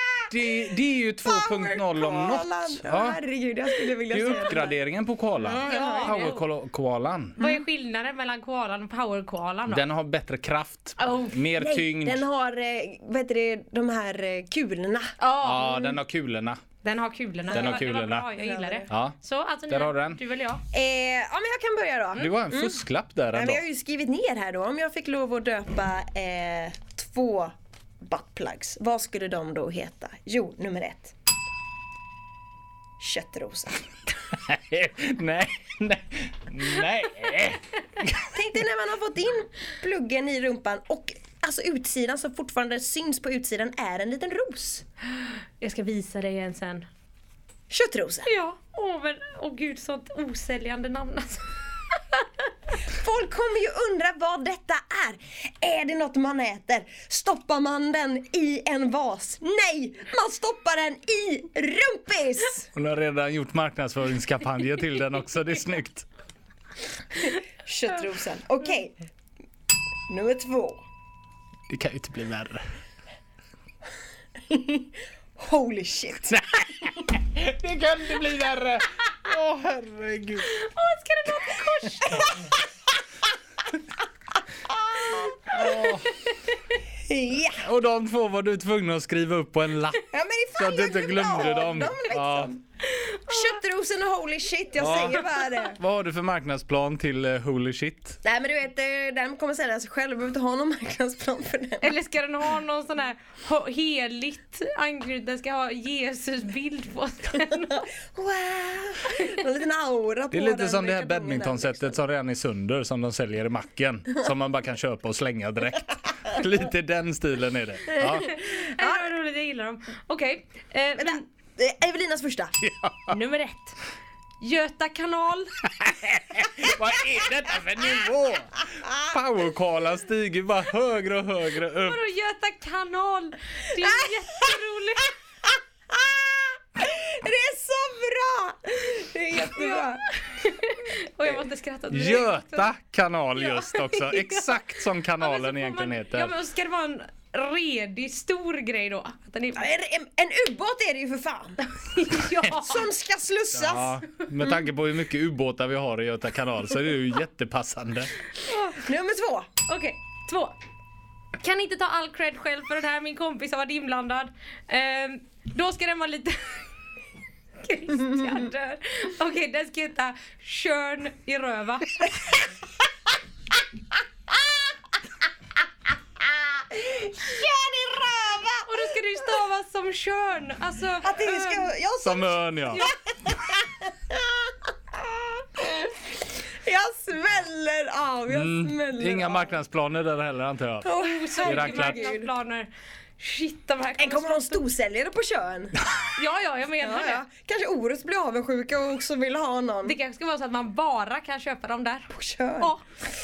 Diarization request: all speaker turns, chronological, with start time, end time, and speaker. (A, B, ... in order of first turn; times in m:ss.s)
0:00.3-0:03.2 A
0:01.2-0:04.8 B
0:04.1-0:07.4 A
0:05.4-0:06.2 B
0:05.6-0:06.4 C
0:07.4-0:09.8 C
0:09.7-0:12.2 A
0:11.0-0:11.4 C
0:11.6-0:15.1 B
0:15.2-0:15.9 C
0:15.4-0:16.6 A
0:16.8-0:20.6 C
0:17.5-0:18.3 A
0:17.5-0:18.9 B
0:18.9-0:19.1 A
0:19.7-0:20.2 A
0:20.7-0:22.8 B
0:22.2-0:23.6 A
0:23.3-0:31.1 B
0:33.0-0:33.8 B
0:34.4-0:38.3 A
0:38.3-0:44.8 B
0:45.1-0:46.9 C
0:47.7-0:48.3 B
0:48.2-0:51.4 C
0:52.9-1:02.7 B
1:02.7-1:06.1 A
1:07.2-1:09.0 B
1:10.1-1:10.8 B
1:11.7-1:12.6 A
1:14.5-1:16.4 B
1:16.3-1:20.5 A
1:20.4-1:22.4 C
1:24.7-1:26.0 B
1:25.5-1:26.1 A
1:27.0-1:27.6 B
1:27.6-1:30.0 A
1:30.1-1:32.6 B
1:30.5-1:32.5 A
1:32.8-1:33.6 C
1:33.3-1:35.8 B
1:34.8-1:38.2 A
1:38.2-1:42.0 B
1:41.8-1:47.9 C
1:48.1-1:52.0 B
1:50.3-1:58.3 A
1:58.0-1:59.1 B
1:58.0-2:01.2 C
2:01.0-2:02.6 B
2:02.6-2:03.2 A
2:03.1-2:03.8 C
2:04.4-2:05.5 C
2:05.8-2:12.0 A
2:11.8-2:15.1 C
2:15.5-2:20.0 B
2:19.4-2:22.7 C
2:21.9-2:26.4 A
2:23.4-2:24.6 C
2:25.2-2:29.7 C
2:29.6-2:31.6 B
2:31.8-2:32.9 C
2:32.4-2:33.9 B
2:33.5-2:38.1 A
2:38.5-2:38.8 C
2:38.7-2:39.5 B
2:39.6-2:40.6 C
2:41.4-2:46.6 C
2:47.6-2:52.3 C
2:56.6-2:58.7 B
2:58.6-3:01.7 C
3:01.0-3:09.5 B
3:02.0-3:02.9 A
3:08.3-3:10.9 A
3:10.8-3:12.3 B
3:11.0-3:14.6 C
3:11.4-3:12.1 A
3:14.0-3:15.8 B
3:16.1-3:17.2 C
3:16.8-3:20.0 B
3:19.8-3:22.8 C
3:22.1-3:22.7 B